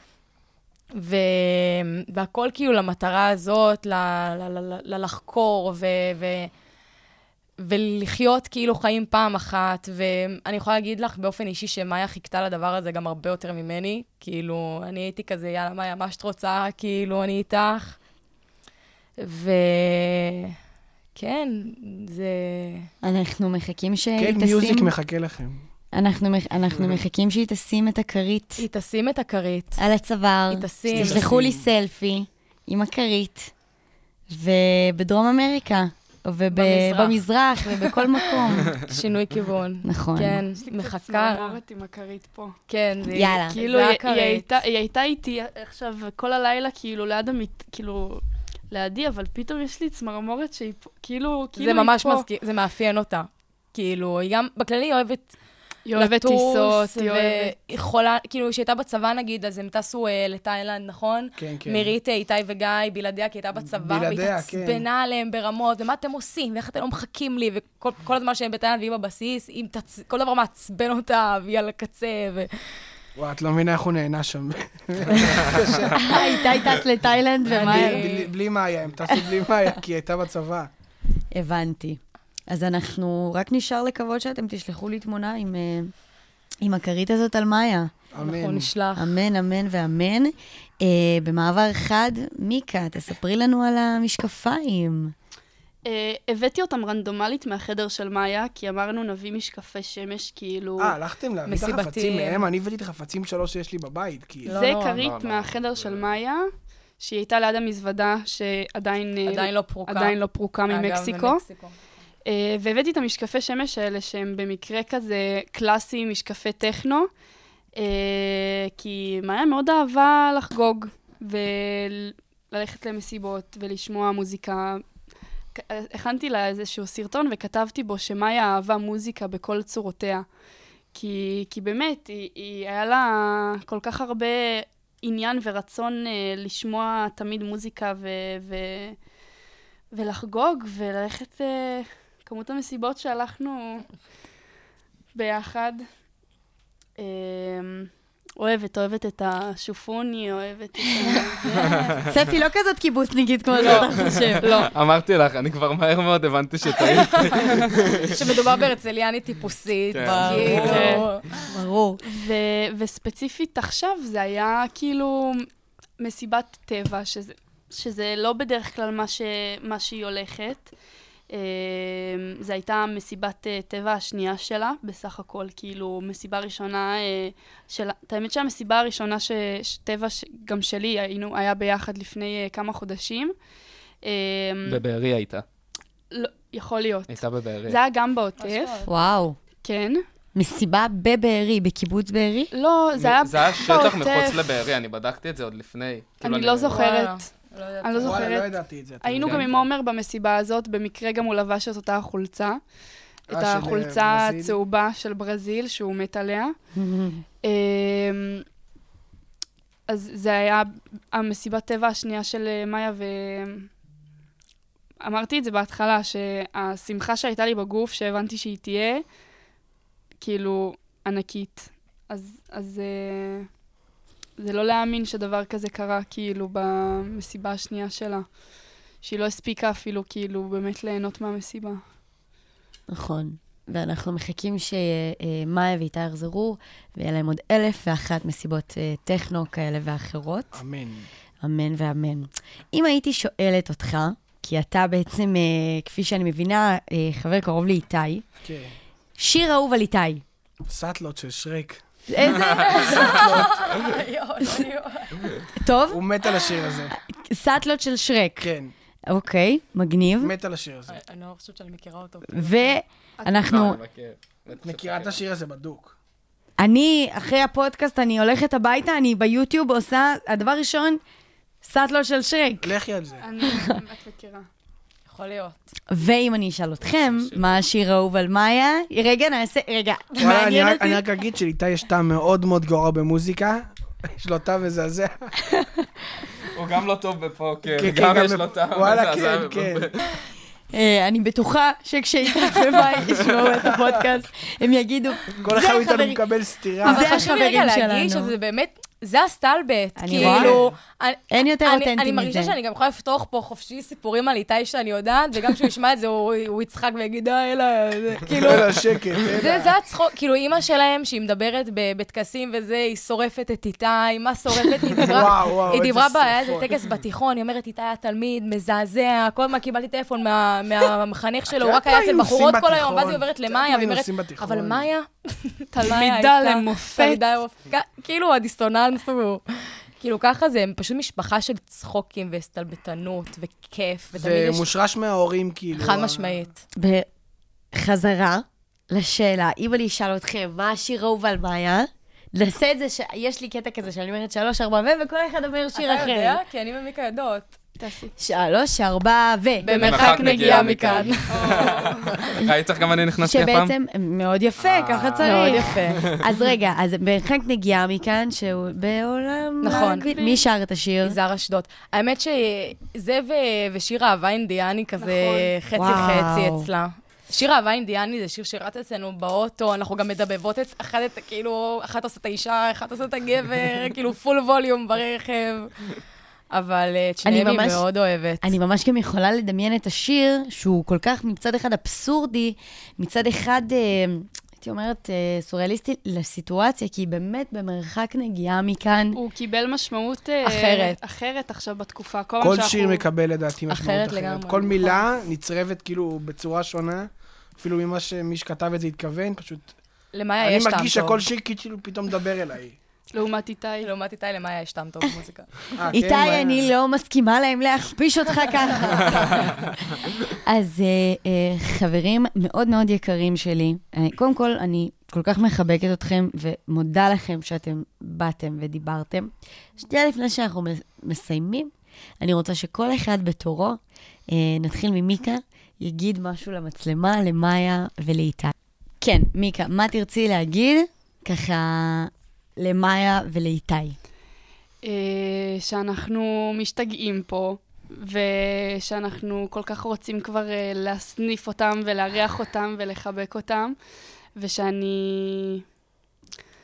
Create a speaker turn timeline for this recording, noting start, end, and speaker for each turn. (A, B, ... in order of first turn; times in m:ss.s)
0:01.0-0:06.5 A
0:07.6-0:18.0 A
0:19.2-0:20.5 A
0:21.1-0:22.9 A
0:23.0-0:24.9 B
0:24.2-0:25.6 C
0:25.9-0:28.6 B
0:28.6-0:29.8 A
0:29.8-0:33.5 B
0:30.5-0:31.3 A
0:30.9-0:31.6 C
0:34.3-0:38.8 B
0:36.5-0:41.6 A
0:39.8-0:40.4 B
0:40.6-0:42.6 D
0:42.7-0:44.6 A
0:43.1-0:43.5 B
0:43.5-0:52.3 D
0:51.6-0:55.3 A
0:55.8-0:57.5 D
0:56.0-1:12.5 A
1:01.4-1:01.9 C
1:03.6-1:04.8 C
1:13.2-1:16.1 C
1:16.0-1:18.0 B
1:17.5-1:18.3 A
1:17.5-1:20.7 C
1:21.3-1:25.9 B
1:26.6-1:27.9 B
1:28.1-1:28.7 C
1:28.2-1:29.2 A
1:29.0-1:35.1 B
1:35.8-1:41.0 D
1:40.8-1:44.6 C
1:41.4-1:42.5 A
1:44.4-1:46.4 D
1:44.4-1:45.0 A
1:44.9-1:46.1 E
1:47.0-1:51.4 D
1:49.3-1:50.2 A
1:50.7-1:51.8 A
1:52.2-1:57.1 D
1:57.8-2:04.8 D
2:05.5-2:10.3 D
2:10.9-2:19.0 D
2:19.9-2:23.9 D
2:25.1-2:25.8 D
2:27.0-2:31.8 D
2:32.1-2:34.5 B
2:33.6-2:38.1 E
2:34.4-2:34.7 D
2:37.0-2:41.3 A
2:39.9-2:41.0 E
2:40.0-2:42.0 B
2:40.6-2:41.0 D
2:42.0-2:45.5 D
2:46.0-2:50.7 D
2:51.3-3:03.3 D
3:04.0-3:04.8 D
3:04.6-3:05.4 E
3:06.1-3:08.8 D
3:07.1-3:07.8 E
3:08.4-3:08.9 A
3:08.8-3:09.4 B
3:09.6-3:10.0 D
3:10.3-3:12.5 B
3:12.5-3:14.4 D
3:13.2-3:16.8 E
3:16.2-3:17.3 D
3:16.7-3:18.3 A
3:17.8-3:22.7 D
3:18.0-3:19.5 C
3:19.2-3:19.6 E
3:23.3-3:26.6 D
3:23.3-3:24.6 C
3:26.7-3:27.2 B
3:27.4-3:28.4 D
3:29.9-3:33.7 D
3:35.0-3:39.0 D
3:40.2-3:43.5 D
3:44.4-3:48.4 D
3:49.0-3:51.8 D
3:52.9-4:00.6 B
4:00.5-4:01.1 C
4:01.4-4:08.2 B
4:08.4-4:08.7 C
4:09.2-4:10.2 B
4:10.7-4:11.8 C
4:12.1-4:13.2 B
4:12.6-4:13.6 C
4:12.6-4:15.4 A
4:15.6-4:16.0 B
4:15.9-4:16.9 C
4:16.9-4:18.5 B
4:18.4-4:18.7 C
4:19.1-4:20.3 B
4:20.2-4:21.0 C
4:20.9-4:22.8 A
4:22.3-4:23.8 B
4:23.2-4:23.8 D
4:23.4-4:25.2 E
4:24.5-4:25.9 C
4:26.6-4:31.0 B
4:31.6-4:32.7 B
4:32.6-4:33.2 C
4:33.2-4:34.5 D
4:35.1-4:35.7 A
4:35.9-4:41.0 B
4:36.9-4:37.6 E
4:40.2-4:45.3 C
4:45.5-4:45.8 B
4:46.5-4:50.1 E
4:47.8-4:49.9 C
4:50.7-4:56.2 B
4:55.4-4:57.2 C
4:56.8-4:58.3 B
4:56.8-5:34.7 A
5:00.0-5:00.6 B
5:00.2-5:00.7 C
5:01.3-5:02.5 B
5:08.3-5:09.7 C
5:14.9-5:16.7 C
5:21.5-5:24.9 C
5:25.7-5:27.2 D
5:34.1-5:36.4 C
5:35.7-5:36.6 A
5:36.7-5:37.1 B
5:37.7-5:46.4 B
5:45.7-5:47.5 A
5:47.8-5:48.1 D
5:48.2-5:50.3 B
5:49.6-5:51.8 A
5:49.7-5:52.1 D
5:49.8-5:53.7 E
5:53.2-6:01.2 B
5:54.6-5:56.2 E
5:55.2-5:56.1 A
5:59.6-6:00.1 A
5:59.7-6:00.4 D
6:01.0-6:15.8 A
6:05.0-6:05.5 D
6:05.7-6:06.7 B
6:16.5-6:18.5 A
6:17.2-6:17.8 B
6:18.4-6:29.2 B
6:29.1-6:33.0 D
6:30.4-6:31.0 A
6:32.4-6:39.8 C
6:33.7-6:34.9 A
6:40.1-6:41.2 A
6:40.4-6:42.8 C
6:43.1-6:43.9 D
6:43.8-6:45.8 A
6:45.7-6:46.7 C
6:45.9-6:49.4 B
6:50.3-7:14.0 B
7:14.8-7:23.8 D
7:24.4-7:25.6 D